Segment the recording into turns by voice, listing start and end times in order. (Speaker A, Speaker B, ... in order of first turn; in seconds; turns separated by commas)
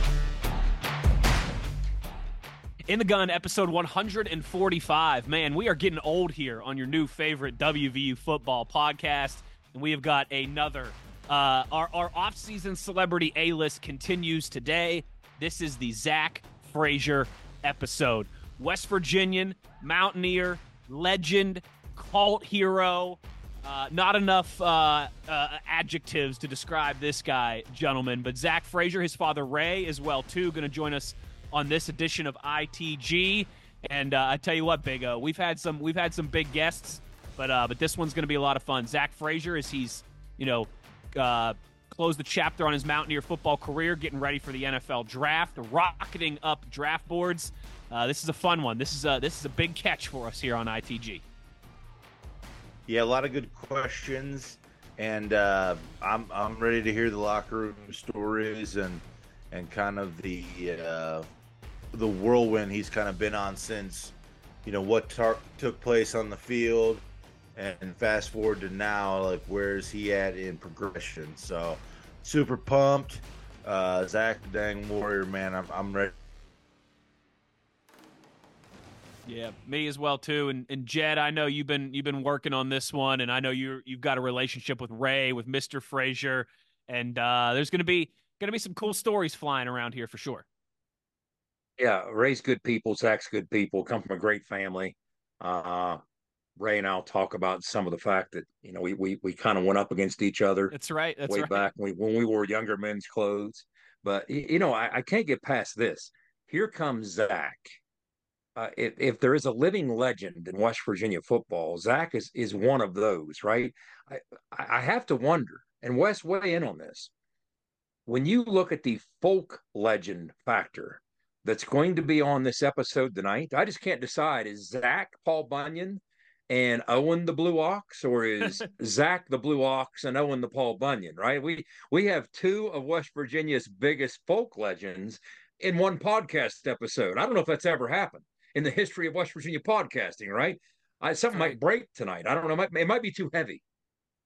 Speaker A: 2.9-51.2, Speaker B: 52.9-61.3, Speaker B: 61.9-67.0, Speaker B: 67.5-76.1, Speaker A: 79.2-90.5, Speaker C: 91.8-96.0, Speaker C: 96.6-100.7, Speaker A: 100.7-101.7, Speaker C: 101.3-107.8, Speaker C: 108.5-117.1, Speaker C: 118.0-143.6